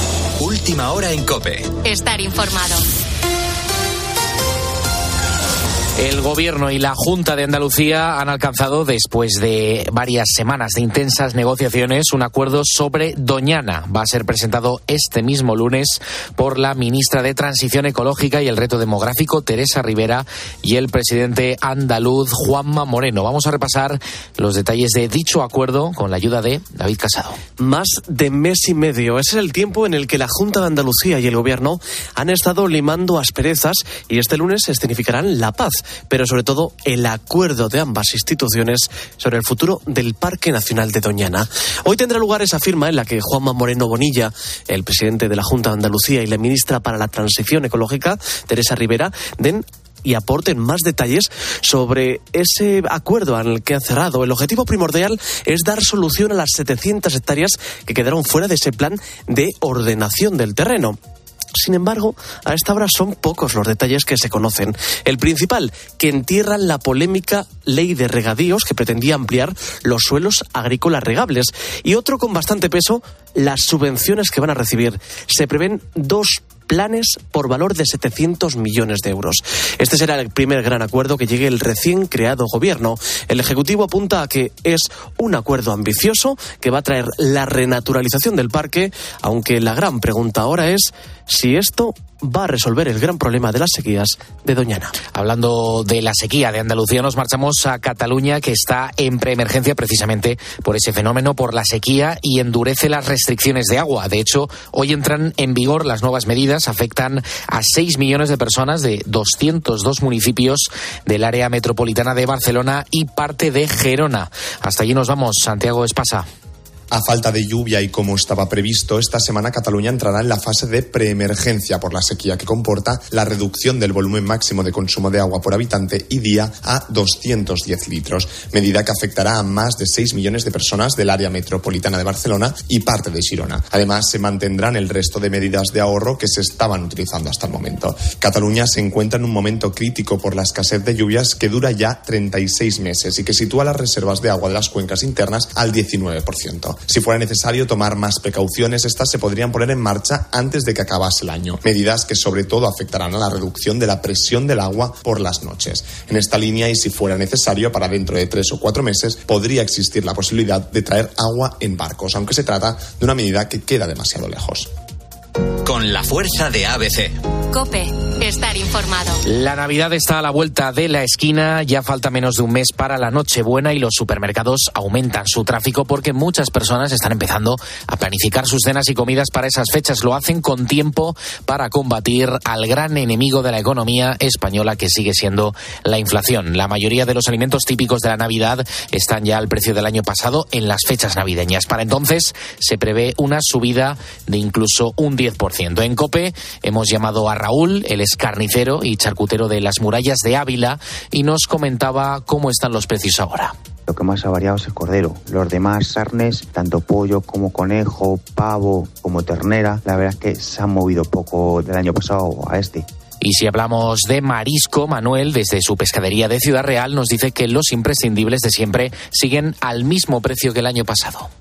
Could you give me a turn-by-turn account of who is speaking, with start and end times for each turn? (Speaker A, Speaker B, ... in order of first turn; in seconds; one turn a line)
Speaker A: 0.4-1.7
Speaker B: 1.8-2.8
Speaker C: 6.0-27.4
Speaker D: 27.6-61.0
Speaker D: 61.5-94.9
Speaker C: 95.1-116.2
Speaker E: 116.9-164.7
Speaker A: 165.6-167.1
Speaker B: 167.5-169.2
Speaker C: 169.2-203.5
Speaker F: 203.9-212.9
Speaker C: 213.2-221.3